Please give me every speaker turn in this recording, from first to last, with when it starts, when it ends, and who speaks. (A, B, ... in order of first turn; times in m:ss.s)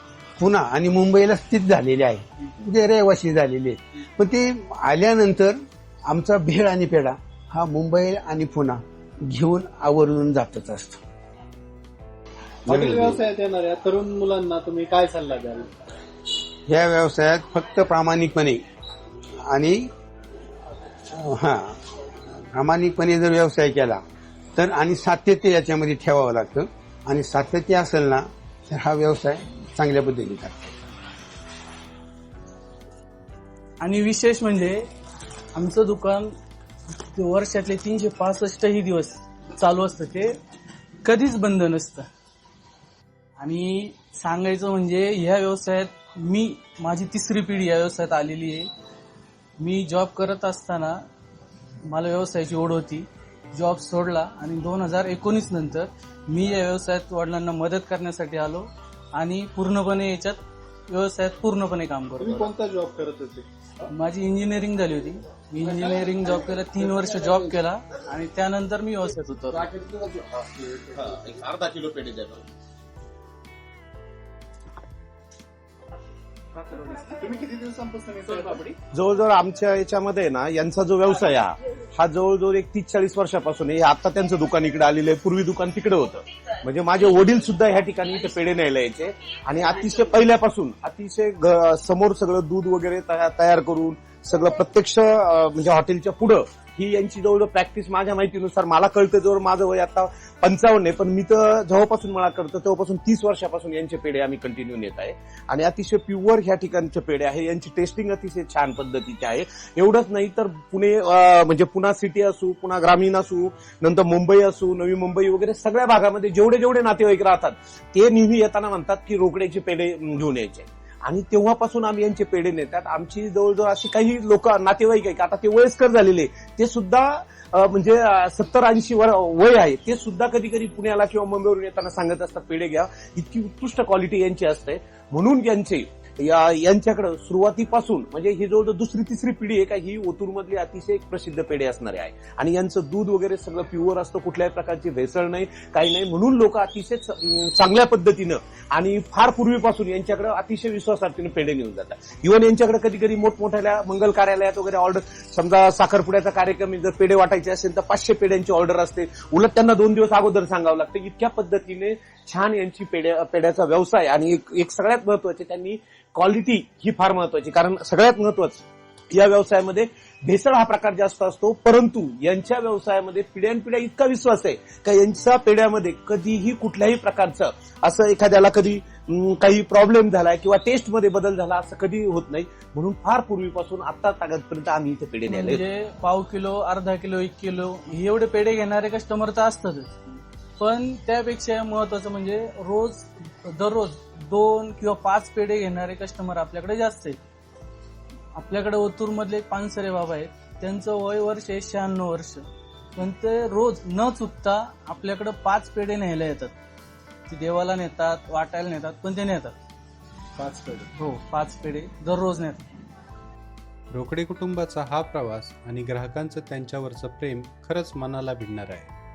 0:00.4-0:11.0 A
0:12.7-0:13.2 A
0:12.7-0:15.7 B
0:16.7-0:18.6 A
0:19.4-0:19.9 A
0:21.1-0:24.0 A
0:24.5-0:30.8 A
0:33.8-0:34.9 C
0:35.5-0:36.3 C
0:37.1-0:40.4 C
0:41.0-0:42.1 C
0:43.4-0:48.7 C
0:49.6-0:51.0 C
0:51.8-1:02.5 C
1:02.2-1:03.9 B
1:03.9-1:09.7 C
1:09.7-1:10.4 D
1:10.9-1:12.4 D
1:16.6-1:18.8 B
1:18.9-3:05.6 D
3:05.3-3:17.2 C
3:18.3-3:26.5 C
3:27.3-3:29.5 C
3:30.4-3:30.9 B
3:31.0-3:32.6 C
3:33.9-3:38.9 E